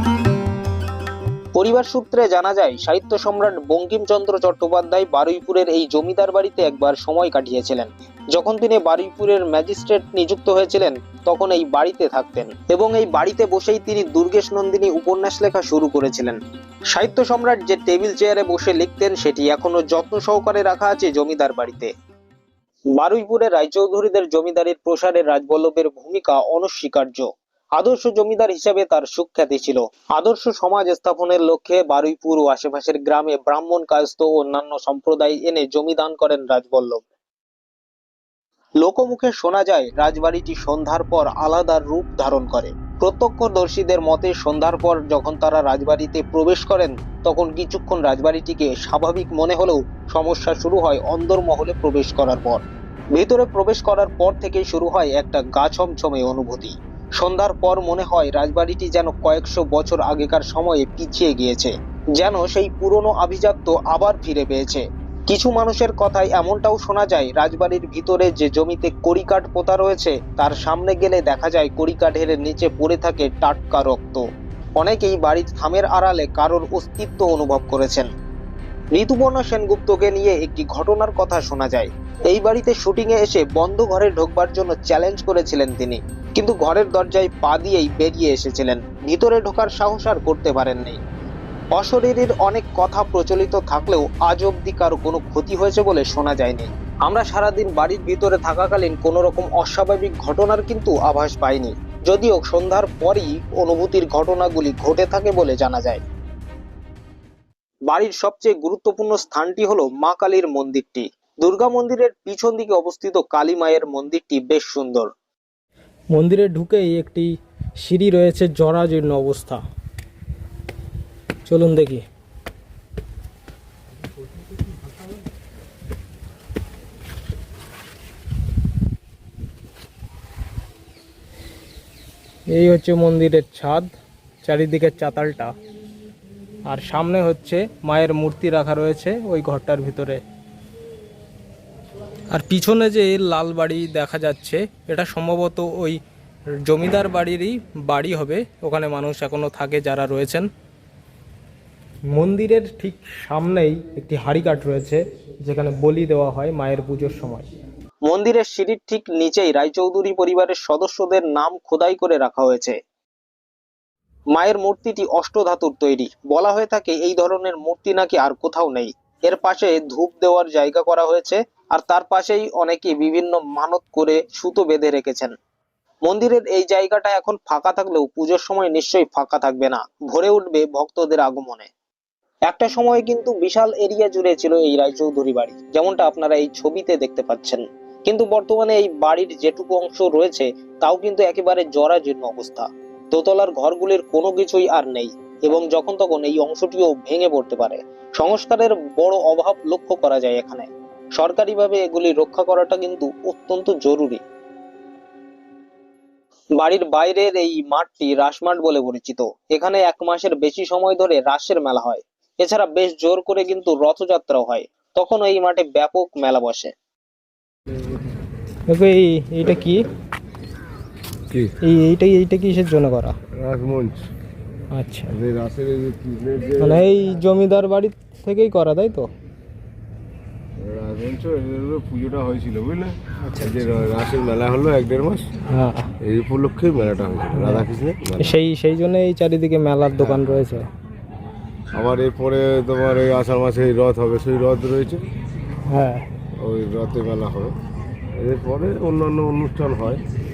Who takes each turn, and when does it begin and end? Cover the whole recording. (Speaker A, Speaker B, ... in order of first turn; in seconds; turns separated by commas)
Speaker A: 1.6-16.4, Speaker A: 16.9-21.9, Speaker A: 23.0-37.0, Speaker A: 38.8-52.6, Speaker A: 53.1-74.2, Speaker A: 74.8-78.1, Speaker A: 78.9-91.0, Speaker A: 91.7-106.0, Speaker A: 107.9-115.1, Speaker B: 116.1-119.6, Speaker B: 121.5-122.0, Speaker B: 132.5-133.9, Speaker B: 134.4-135.5, Speaker B: 136.7-140.2, Speaker B: 142.3-146.0, Speaker B: 146.7-150.5, Speaker B: 152.1-157.5, Speaker A: 158.1-162.8, Speaker A: 164.3-175.3, Speaker A: 176.0-181.7, Speaker A: 182.5-204.2, Speaker A: 206.6-216.7, Speaker B: 218.7-219.8, Speaker B: 221.6-223.2, Speaker C: 223.3-224.1, Speaker B: 224.7-225.1, Speaker C: 225.1-226.8, Speaker B: 226.6-229.1, Speaker C: 230.6-235.3, Speaker B: 233.2-233.6, Speaker B: 235.5-235.9, Speaker C: 236.0-238.4, Speaker B: 237.3-237.7, Speaker B: 238.2-240.7, Speaker C: 241.7-245.1, Speaker B: 245.7-246.1, Speaker C: 246.4-247.5, Speaker C: 248.2-250.0